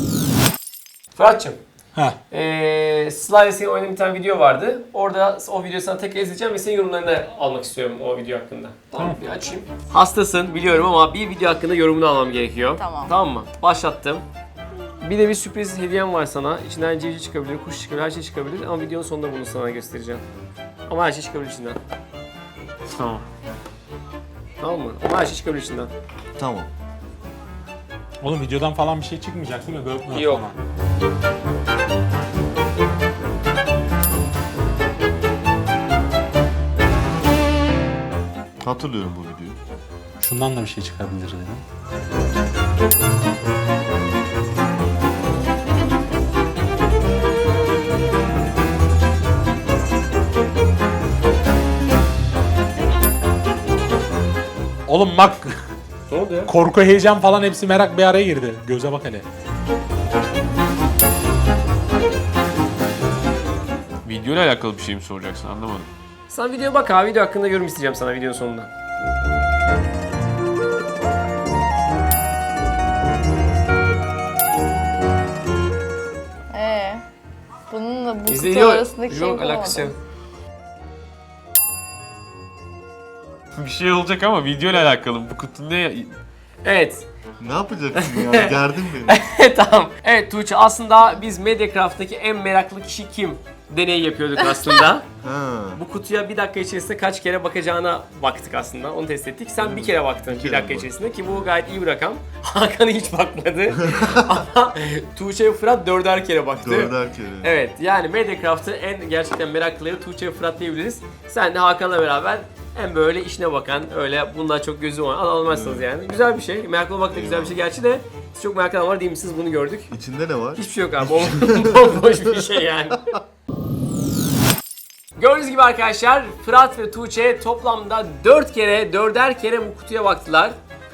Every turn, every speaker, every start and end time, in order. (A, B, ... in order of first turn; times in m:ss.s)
0:01.2-0:01.6 A
0:02.3-0:14.2 A
0:12.8-0:13.1 B
0:15.0-0:20.2 A
0:20.9-0:21.8 A
0:24.6-0:25.9 A
0:26.4-0:26.7 C
0:28.2-0:30.6 D
0:30.1-0:30.5 A
0:38.6-0:39.6 C
0:40.2-0:41.6 D
0:54.9-0:55.6 D
0:56.1-0:56.5 A
0:56.5-0:59.2 D
1:04.0-1:05.9 E
1:06.3-1:08.7 A
1:16.5-1:17.0 B
1:17.7-1:19.9 B
1:18.3-1:20.0 A
1:23.5-1:26.1 E
1:26.6-1:27.1 A
1:27.4-1:29.2 C
1:28.0-1:35.1 A
1:35.2-1:35.8 C
1:35.8-1:59.9 A
1:39.6-1:41.0 C
1:43.8-1:44.2 C
1:46.6-1:47.5 C
1:55.5-1:55.9 C
1:57.1-1:57.6 C
1:59.9-2:02.5 C
2:00.6-2:03.2 A
2:05.2-2:10.6 A